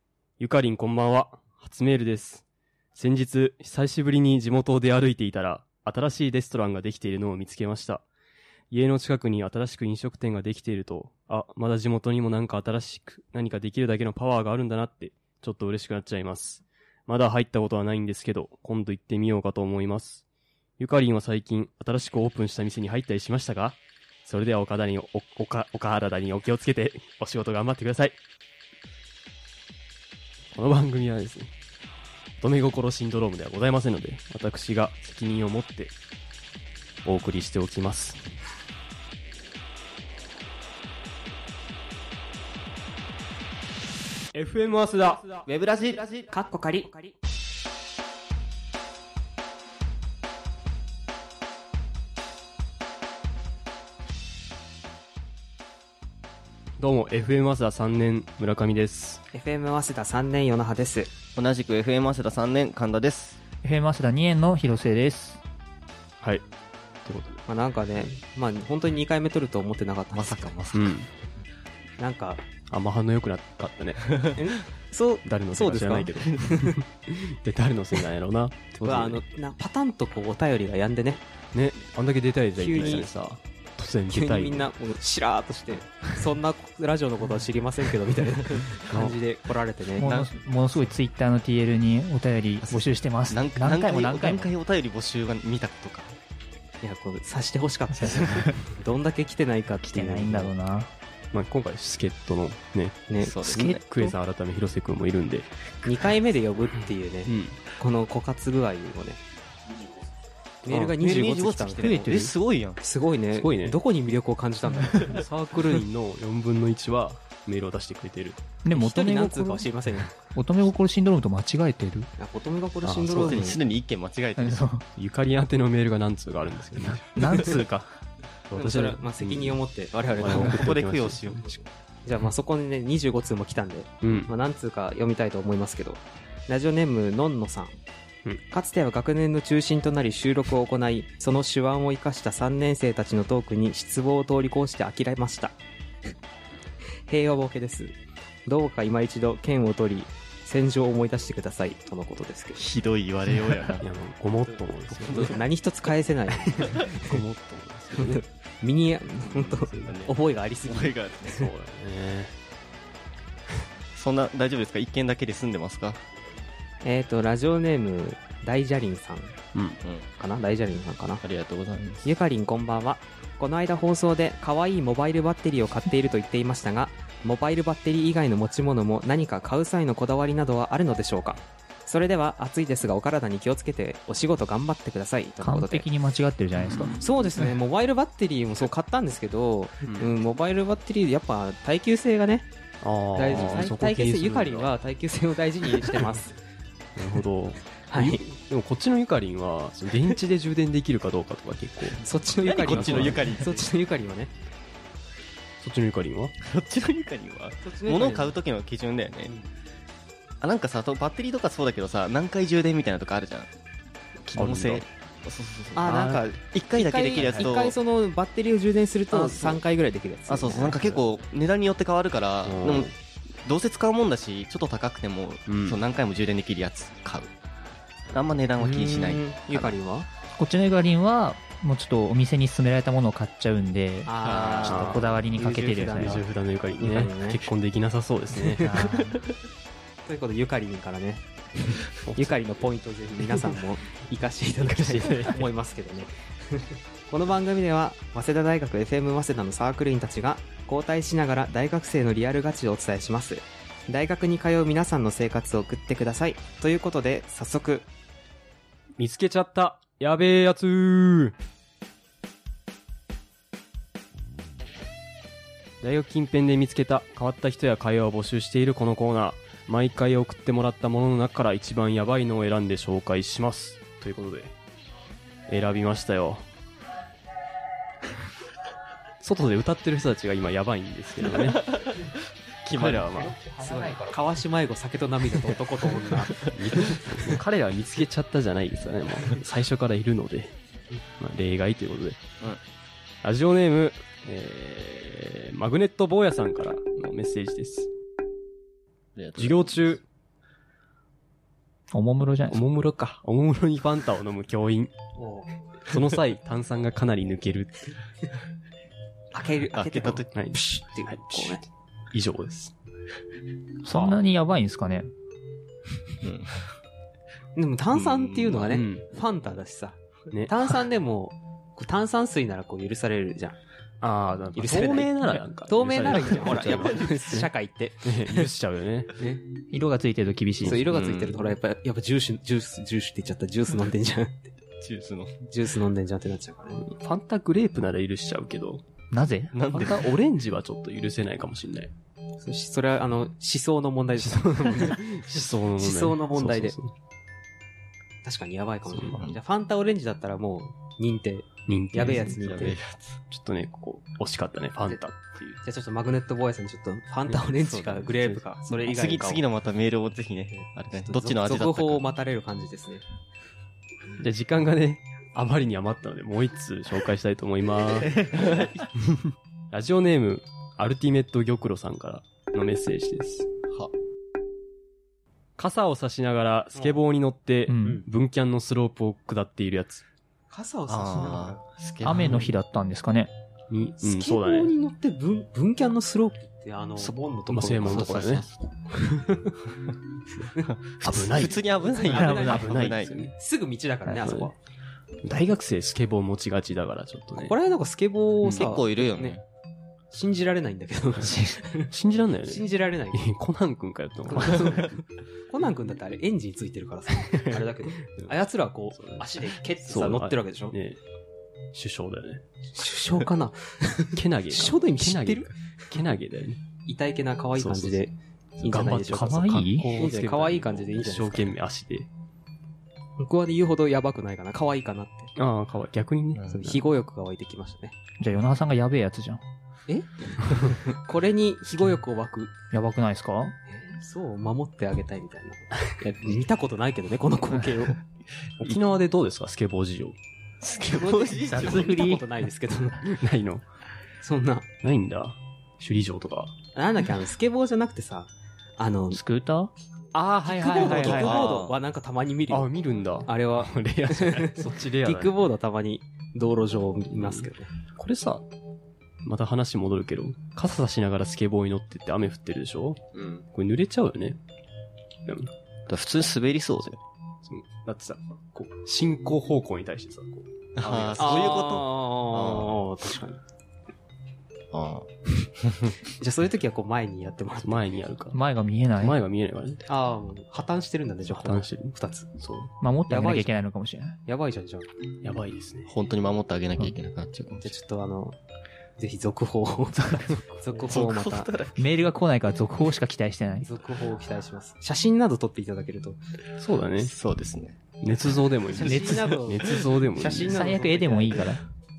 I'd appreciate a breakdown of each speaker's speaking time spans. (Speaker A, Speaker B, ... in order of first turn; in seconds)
Speaker A: 0.4-2.4, 2.9-8.1, 8.7-20.2, 20.8-28.2, 30.5-31.5, 32.4-35.9, 37.0-38.2, 44.3-45.5, 56.8-59.2, 67.0-67.4, 70.7-71.1, 72.7-74.1, 75.2-79.2, 81.5-84.7, 88.9-89.1, 101.3-105.5, 107.2-107.6, 110.6-111.0, 111.8-112.3, 113.3-113.8, 114.8-118.4, 122.8-123.4, 125.0-127.2, 128.5-129.6, 130.1-131.4, 134.0-134.3, 153.8-155.4, 156.4-158.2, 159.3-160.1, 161.3-162.3, 169.5-169.8, 186.6-187.0, 189.8-190.1, 192.8-194.7, 195.9-196.2, 196.9-202.0, 202.6-203.2, 205.6-206.3, 214.3-214.8, 217.2-217.5, 219.1-219.6, 222.4-223.0, 225.5-225.8, 234.6-235.1, 235.9-238.7, 242.0-242.4, 243.2-243.6, 244.6-245.5, 259.0-261.3, 265.8-274.5, 275.5-276.5, 279.2-281.6, 282.7-283.4, 286.4-290.5, 291.1-292.2, 293.2-297.9, 299.4-300.0, 302.5-304.9, 305.8-307.8, 310.3-312.7, 313.9-314.2, 318.7-319.1, 320.3-320.6, 324.0-327.5, 328.0-329.1, 330.6-330.9, 336.8-338.8, 339.7-341.9, 344.2-346.9, 351.7-352.7, 353.3-355.6, 364.2-368.2, 369.0-373.5, 375.6-380.0, 383.7-384.7, 387.5-388.4, 391.0-393.3, 394.1-394.5, 395.2-397.5, 401.9-404.9, 407.3-408.3, 408.9-411.0, 411.7-412.4, 414.1-416.6, 417.5-418.0, 418.6-422.1, 425.4-426.8, 438.6-440.2, 443.0-443.6, 444.8-446.5, 450.4-451.4, 452.5-455.4, 457.2-458.4, 459.2-464.4, 465.2-465.5, 467.4-471.7, 477.6-478.4, 479.0-479.9, 481.3-482.7, 485.2-485.9, 496.6-497.1, 498.0-500.6
Speaker B: 45.5-46.3, 61.3-63.4, 70.1-71.0, 82.7-83.0, 90.0-90.3, 92.6-96.2, 103.2-103.8, 110.9-112.8, 123.1-124.6, 130.2-131.7, 152.6-153.8, 160.6-161.4, 163.9-166.0, 169.8-170.1, 171.2-172.1, 202.4-203.6, 206.4-209.3, 210.4-213.5, 214.3-217.8, 220.3-227.3, 228.1-229.8, 234.2-235.0, 281.3-282.1, 282.6-283.0, 299.1-299.9, 309.7-310.3, 316.2-316.6, 317.9-318.8, 330.8-331.4, 334.8-335.4, 339.5-340.1, 349.1-349.4, 352.3-353.2, 357.5-358.2, 358.8-362.1, 368.0-368.9, 380.9-382.5, 387.8-388.6, 390.6-393.2, 398.5-399.4, 440.6-441.9, 450.7-451.8, 465.9-467.0, 470.8-472.8, 474.7-475.1, 475.6-475.9, 485.9-487.7, 490.9-491.9, 497.0-497.8, 498.8-500.4
Speaker C: 46.3-47.1, 59.3-61.1, 67.5-70.5, 72.0-72.4, 74.3-76.8, 78.8-81.2, 82.5-83.1, 84.1-90.0, 96.8-100.5, 103.1-104.1, 105.8-109.2, 110.6-115.2, 118.7-120.2, 122.2-123.6, 128.5-130.7, 132.0-137.8, 138.4-145.6, 147.1-152.6, 154.9-157.2, 157.9-161.5, 166.8-169.4, 170.2-171.2, 172.0-185.8, 187.0-192.5, 193.2-196.3, 197.9-198.2, 202.0-204.3, 207.6-208.3, 215.8-220.8, 228.6-230.1, 234.0-236.2, 236.8-237.4, 238.5-238.9, 240.0-257.9, 283.5-287.2, 305.2-305.5, 309.3-311.6, 317.5-323.6, 324.5-328.1, 329.2-329.5, 330.6-334.5, 335.5-336.9, 342.4-345.0, 345.8-346.8, 348.2-352.8, 355.6-359.4, 360.6-363.0, 376.8-377.0, 380.5-381.6, 384.0-388.4, 389.0-389.6, 390.6-394.6, 397.4-399.4, 400.1-401.9, 402.4-403.2, 404.3-410.7, 412.7-415.6, 416.8-419.4, 419.9-421.5, 423.2-425.3, 426.5-428.0, 429.9-432.5, 433.7-438.0, 440.9-443.0, 444.2-444.7, 446.7-449.2, 450.3-452.7, 453.2-457.7, 471.2-473.4, 476.2-477.9, 479.9-482.3, 483.1-483.5, 484.2-484.9, 487.6-488.4, 489.0-491.6, 493.6-496.2, 498.7-501.6
Speaker D: 63.6-65.4, 90.0-94.5, 98.1-98.5, 99.8-100.9, 118.6-119.7, 120.2-122.1, 124.4-124.8, 127.2-127.9, 185.4-187.0, 230.3-236.2, 238.6-239.2, 283.1-284.2, 301.9-302.6, 313.8-315.1, 329.7-330.9, 339.1-339.6, 377.7-378.0, 382.0-383.3, 392.1-392.5, 419.1-420.0, 428.2-429.4, 432.7-433.5, 441.5-442.2, 449.1-449.7, 450.5-451.3, 478.3-479.2, 482.8-484.2, 491.8-493.7, 500.5-501.6